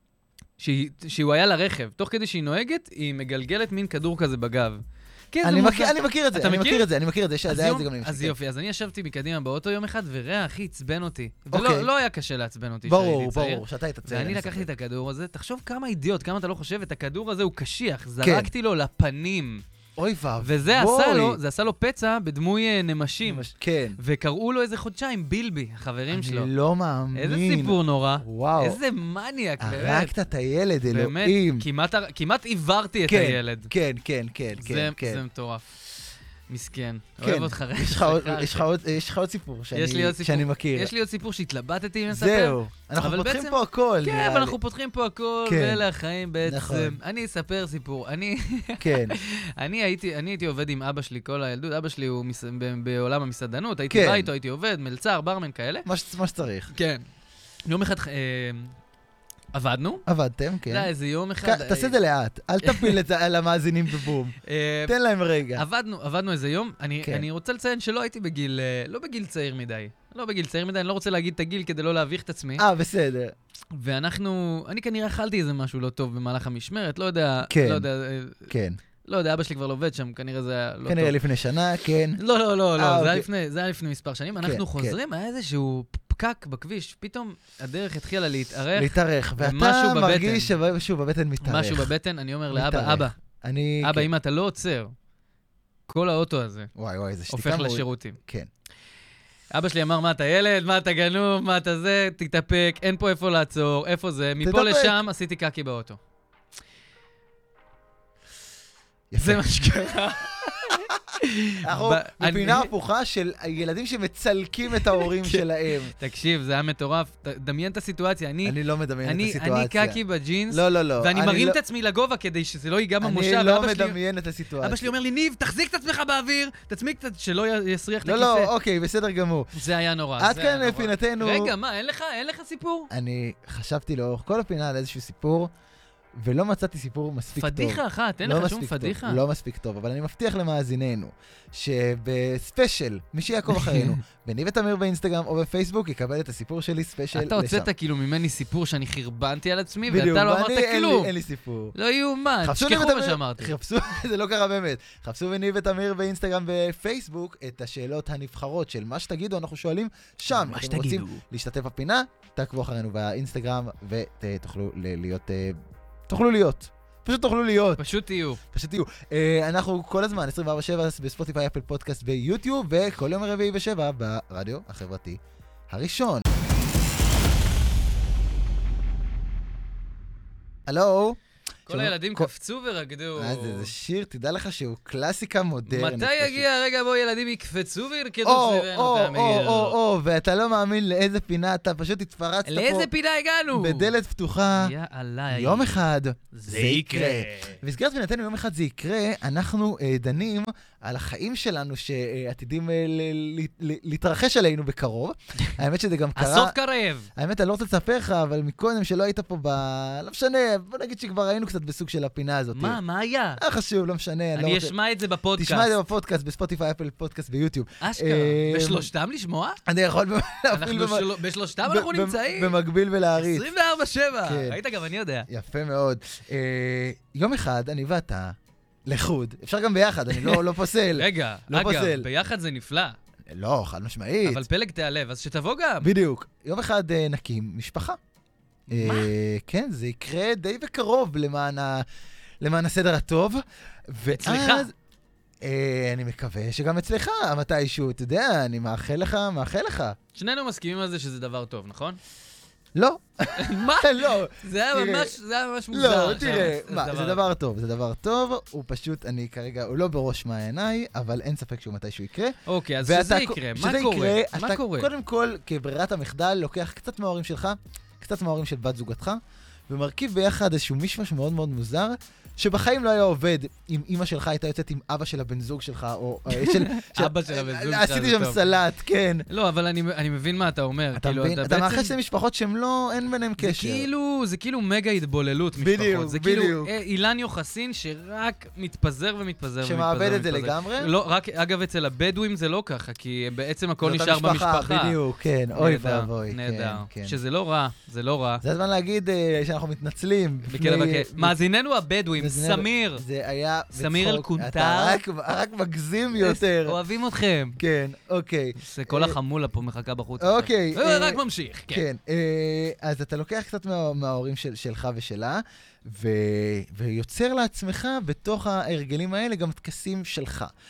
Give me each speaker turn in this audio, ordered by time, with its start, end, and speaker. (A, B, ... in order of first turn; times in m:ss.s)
0:00.6-0:06.8 A
0:05.4-0:08.3 B
0:07.5-0:19.6 A
0:11.5-0:11.9 B
0:12.8-0:14.7 B
0:18.2-0:18.5 B
0:20.0-0:21.4 B
0:20.4-0:26.5 A
0:23.2-0:24.0 B
0:26.1-0:28.8 B
0:27.1-0:30.1 A
0:29.6-0:31.6 B
0:30.9-0:33.7 A
0:33.1-0:35.2 B
0:34.6-0:35.7 A
0:36.5-0:38.7 A
0:37.2-0:40.9 B
0:39.7-0:55.8 A
0:42.1-0:44.6 B
0:45.4-0:45.8 B
0:46.4-0:47.0 B
0:48.8-0:49.2 B
0:53.9-0:54.3 B
0:55.8-0:56.7 B
0:56.7-0:57.0 A
0:57.7-0:58.7 A
0:59.5-1:00.0 A
1:00.1-1:00.9 B
1:00.7-1:02.0 A
1:01.4-1:05.6 B
1:02.6-1:03.0 A
1:04.4-1:04.9 A
1:05.6-1:12.6 A
1:12.6-1:13.3 B
1:13.7-1:18.5 A
1:17.5-1:17.9 B
1:18.5-1:18.8 B
1:19.0-1:21.2 A
1:20.9-1:22.2 B
1:22.2-1:30.5 A
1:22.8-1:23.2 B
1:24.4-1:25.0 B
1:28.7-1:31.9 B
1:31.4-1:33.2 A
1:32.5-1:34.1 B
1:33.8-1:34.9 A
1:35.9-1:36.7 A
1:36.7-1:38.5 B
1:37.3-1:38.2 A
1:39.5-1:46.0 A
1:44.4-1:45.0 B
1:49.1-1:49.7 B
1:49.2-1:52.7 A
1:51.6-1:55.9 B
1:54.9-2:04.0 A
1:58.4-2:01.6 B
2:03.0-2:04.9 B
2:04.6-2:08.5 A
2:08.0-2:09.6 B
2:09.5-2:12.9 A
2:10.2-2:11.5 B
2:12.9-2:15.5 B
2:16.1-2:27.7 B
2:17.4-2:19.2 A
2:23.6-2:23.9 A
2:27.1-2:31.1 A
2:29.9-2:31.7 B
2:31.7-2:33.5 A
2:32.4-2:45.6 B
2:40.3-2:41.2 A
2:46.1-2:47.8 B
2:47.8-2:48.4 A
2:48.5-2:55.2 B
2:55.7-2:56.2 B
3:00.7-3:02.3 B
3:01.7-3:03.7 A
3:03.2-3:06.4 B
3:05.7-3:09.8 A
3:08.2-3:12.9 B
3:12.4-3:13.9 A
3:13.5-3:14.7 B
3:14.5-3:17.6 A
3:15.3-3:26.5 B
3:26.2-3:27.1 A
3:27.2-3:32.8 B
3:32.5-3:33.4 A
3:33.4-3:34.7 B
3:34.3-3:35.8 A
3:35.4-3:38.9 B
3:37.8-3:39.6 A
3:39.6-3:43.5 B
3:40.5-3:42.6 A
3:43.2-3:45.3 A
3:44.2-3:44.6 B
3:45.3-3:52.1 B
3:50.1-3:50.4 A
3:50.9-3:53.0 A
3:53.3-3:54.4 B
3:54.2-3:55.9 A
3:55.8-3:58.0 B
3:58.7-3:59.1 A
3:58.7-4:01.8 B
4:02.4-4:04.7 B
4:04.1-4:04.7 A
4:05.4-4:10.0 B
4:10.1-4:12.0 A
4:12.7-4:15.2 B
4:13.4-4:17.2 A
4:15.7-4:39.2 B
4:22.4-4:24.9 A
4:36.3-4:38.5 A
4:39.3-4:41.9 A
4:40.9-4:43.9 B
4:43.4-4:55.0 A
4:45.6-4:46.7 B
4:49.6-4:50.9 B
4:53.8-4:57.2 B
4:55.5-4:58.4 A
4:58.4-5:01.4 B
5:00.5-5:03.0 A
5:02.2-5:06.8 B
5:03.7-5:05.0 A
5:06.2-5:07.6 A
5:07.6-5:09.2 B
5:08.6-5:11.8 A
5:10.2-5:20.5 B